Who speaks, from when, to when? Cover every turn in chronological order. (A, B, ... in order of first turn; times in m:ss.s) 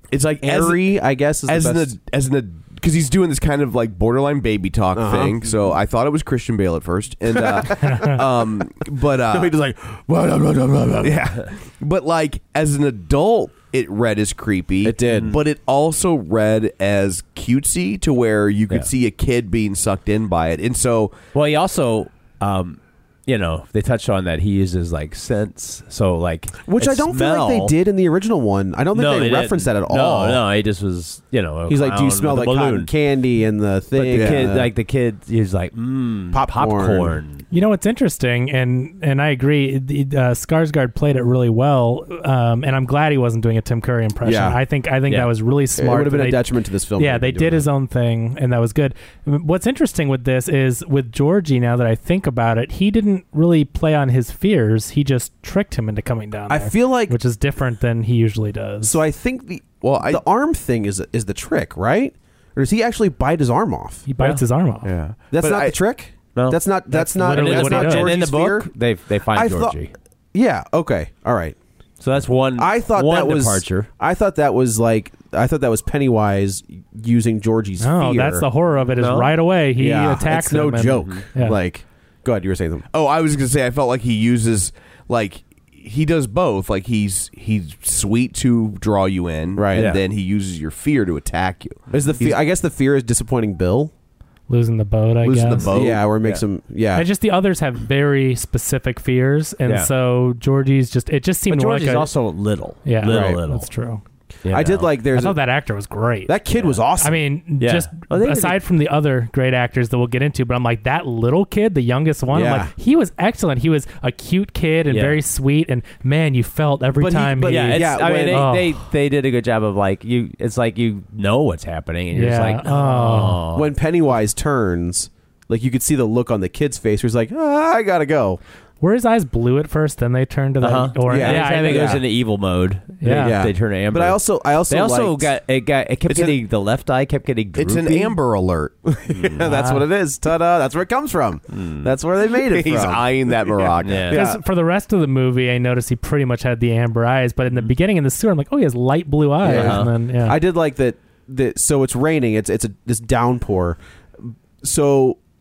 0:00.1-0:00.9 A
0:00.4-0:01.9 B
0:01.4-0:09.5 A
0:04.9-0:05.5 B
0:07.3-0:08.6 B
0:07.9-0:08.2 C
0:09.2-0:11.2 B
0:11.0-0:21.2 A
0:14.8-0:15.4 B
0:14.8-0:15.4 D
0:21.3-0:27.8 D
0:26.6-0:30.4 B
0:28.9-0:32.9 D
0:31.7-0:34.7 B
0:33.9-0:37.5 D
0:34.1-0:34.6 A
0:36.3-0:37.2 B
0:37.5-0:46.4 C
0:44.2-0:44.6 B
0:45.8-0:47.7 B
0:47.0-0:59.0 C
0:56.5-0:57.2 B
0:58.9-1:04.0 B
0:59.8-1:00.2 A
1:04.1-1:04.9 C
1:04.8-1:05.8 A
1:05.3-1:08.7 B
1:06.4-1:09.9 D
1:07.2-1:08.1 C
1:09.3-1:09.8 B
1:10.3-1:11.6 B
1:12.0-1:13.9 D
1:12.6-1:18.4 B
1:17.8-1:21.6 C
1:18.9-1:19.3 D
1:19.8-1:22.9 B
1:20.9-1:21.2 D
1:22.9-1:32.4 A
1:29.5-1:29.9 B
1:29.8-1:30.0 D
1:31.9-1:33.9 B
1:34.5-1:35.7 C
1:35.2-1:36.0 A
1:35.7-1:37.1 B
1:36.9-1:42.1 C
1:41.5-1:43.7 D
1:42.8-1:44.0 C
1:43.0-1:43.4 B
1:44.4-1:44.9 D
1:44.5-1:45.4 B
1:45.1-1:46.3 C
1:46.3-1:47.2 B
1:46.5-1:46.8 D
1:47.0-1:58.8 C
1:47.6-1:48.6 D
1:52.3-1:52.7 B
1:54.9-1:55.2 D
1:57.0-1:58.5 B
1:57.5-2:03.7 D
2:02.1-2:03.4 C
2:03.5-2:08.4 B
2:08.8-2:12.0 C
2:10.6-2:18.2 D
2:11.1-2:12.0 B
2:13.0-2:13.4 C
2:13.1-2:15.4 B
2:16.1-2:16.4 A
2:17.6-2:18.8 A
2:18.9-2:24.4 B
2:19.1-2:19.5 D
2:19.5-2:19.9 C
2:21.5-2:21.9 D
2:22.2-2:24.2 A
2:23.8-2:24.2 D
2:24.1-2:30.4 C
2:29.4-2:35.2 B
2:29.4-2:29.9 D